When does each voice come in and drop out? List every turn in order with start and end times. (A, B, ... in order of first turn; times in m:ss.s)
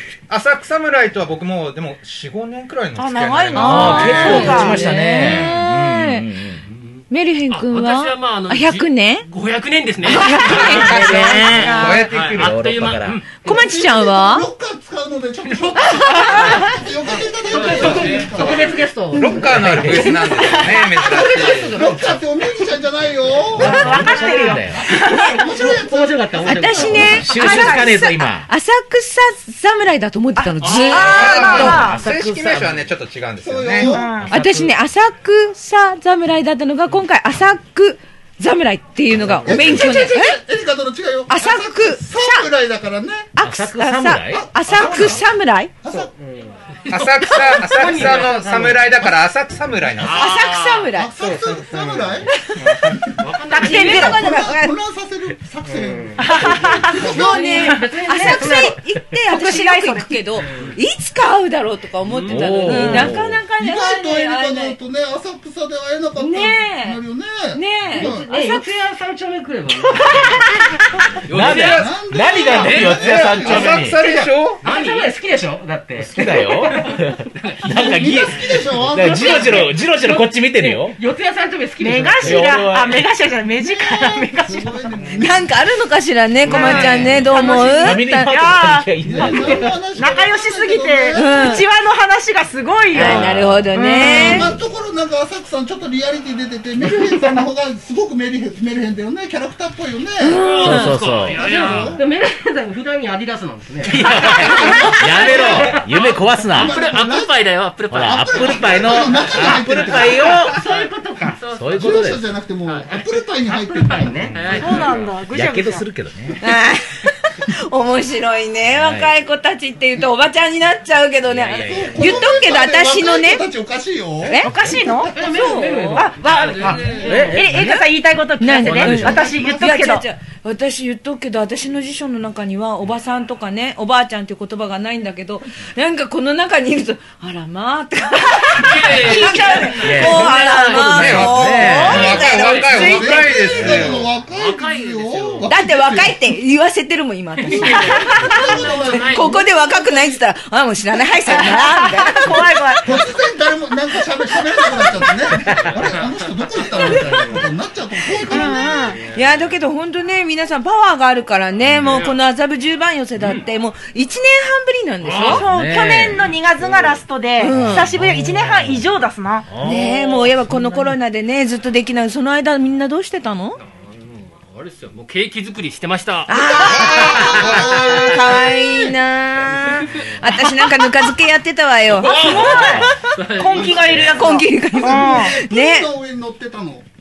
0:00.3-0:04.3 A
0:03.0-0:05.2 B
0:03.6-0:06.2 C
0:03.6-0:06.6 D
0:06.7-0:13.4 E
0:07.1-0:09.3 C
0:10.0-0:11.8 C
0:10.3-0:13.3 D
0:10.9-0:12.0 B
0:11.8-0:12.1 A
0:13.4-0:14.5 C
0:13.4-0:19.5 F
0:15.5-0:16.5 E
0:15.8-0:16.7 C
0:17.2-0:22.2 G
0:17.5-0:18.3 E
0:19.2-0:21.7 A
0:19.5-0:20.1 D
0:20.2-0:20.8 B
0:21.0-0:27.1 F
0:23.6-0:24.8 D
0:23.6-0:25.6 B
0:25.1-0:27.3 G
0:26.4-0:31.8 C
0:27.0-0:28.0 B
0:27.1-0:28.5 D
0:30.4-0:32.0 B
0:30.7-0:31.0 E
0:30.9-0:34.0 A
0:30.9-0:32.9 D
0:33.4-0:34.1 F
0:33.8-0:34.3 B
0:34.1-0:34.8 D
0:34.3-0:40.4 C
0:39.2-0:39.6 D
0:39.2-0:39.5 G
0:39.5-0:43.3 F
0:41.3-0:42.5 C
0:43.4-0:45.8 C
0:43.4-0:45.2 D
0:44.2-0:45.3 F
0:45.8-0:46.1 F
0:45.9-0:46.5 G
0:46.9-0:50.3 A
0:47.0-0:48.0 E
0:47.3-0:49.0 G
0:48.7-0:49.2 F
0:50.0-0:51.0 E
0:50.1-0:51.4 C
0:50.9-0:52.3 F
0:51.2-0:54.2 G
0:52.9-0:58.0 F
0:53.2-0:53.9 E
0:53.5-0:54.2 B
0:53.5-0:54.7 C
0:55.6-0:58.8 G
0:56.2-0:57.1 B
0:56.9-1:04.8 C
0:59.3-1:00.3 B
1:00.4-1:00.8 G
1:02.3-1:03.4 D
1:02.3-1:03.1 G
1:03.5-1:08.3 F
1:06.2-1:07.0 C
1:07.5-1:08.7 C
1:07.9-1:10.5 G
1:11.3-1:11.8 E
1:11.3-1:14.0 D
1:11.4-1:11.9 A
1:11.5-1:13.9 F
1:12.6-1:14.6 A
1:14.0-1:16.9 G
1:14.0-1:15.1 E
1:16.0-1:21.0 D
1:17.4-1:17.6 E
1:17.7-1:19.7 F
1:19.0-1:22.5 G
1:21.8-1:24.9 B
1:22.2-1:23.1 D
1:23.6-1:25.6 F
1:25.1-1:28.3 C
1:26.4-1:29.4 B
1:26.5-1:29.7 D
1:29.0-1:31.6 F
1:29.9-1:34.5 B
1:31.2-1:31.6 C
1:32.9-1:33.7 D
1:33.0-1:34.5 C
1:34.0-1:40.7 F
1:40.2-1:41.0 C
1:40.4-1:42.0 E
1:40.7-1:41.4 D
1:41.3-1:42.0 F
1:41.3-1:45.9 G
1:43.8-1:46.8 D
1:44.3-1:47.4 F
1:45.3-1:45.6 E
1:46.5-1:49.3 E
1:47.9-1:50.6 D
1:48.0-1:50.6 F
1:50.5-1:51.5 G
1:51.4-1:51.8 E
1:51.5-1:52.3 D
1:51.8-1:54.6 F
1:52.7-1:53.1 E
1:53.5-1:55.1 G
1:54.3-1:55.0 E
1:54.3-1:56.4 D
1:54.6-1:55.9 B
1:56.4-2:03.4 C
1:58.7-1:59.1 D
2:01.3-2:02.3 D
2:01.6-2:05.5 F
2:04.2-2:04.5 C
2:04.4-2:05.2 B
2:05.1-2:07.7 G
2:05.2-2:06.1 C
2:05.9-2:10.0 B
2:06.3-2:07.1 E
2:06.6-2:07.3 F
2:07.0-2:07.5 D
2:07.4-2:07.8 C
2:08.4-2:23.2 C
2:08.6-2:09.3 D
2:09.2-2:09.6 F
2:18.5-2:21.2 E
2:19.8-2:22.2 D
2:20.9-2:24.1 A
2:21.7-2:26.2 F
2:21.9-2:23.0 E
2:23.6-2:24.0 D
2:24.2-2:25.5 E
2:25.5-2:28.3 C
2:27.4-2:29.5 E
2:27.5-2:30.1 F
2:28.9-2:32.4 C
2:31.3-2:33.0 B
2:32.8-2:39.0 F
2:35.4-2:35.7 D
2:35.5-2:37.2 E
2:38.3-2:39.0 B
2:39.1-2:45.4 C
2:41.6-2:42.1 D
2:41.9-2:42.2 E
2:45.0-2:45.4 E
2:45.2-2:46.3 D
2:45.2-2:49.5 B
2:47.4-2:47.9 C
2:47.5-2:48.8 D
2:49.5-2:50.7 D
2:49.6-2:53.6 C
2:53.7-2:56.4 E
2:56.3-3:02.2 C
2:56.3-2:58.9 F
2:56.8-2:57.7 A
3:02.0-3:04.3 E
3:02.0-3:05.4 B
3:02.2-3:02.9 D
3:04.1-3:05.9 C
3:04.3-3:06.9 F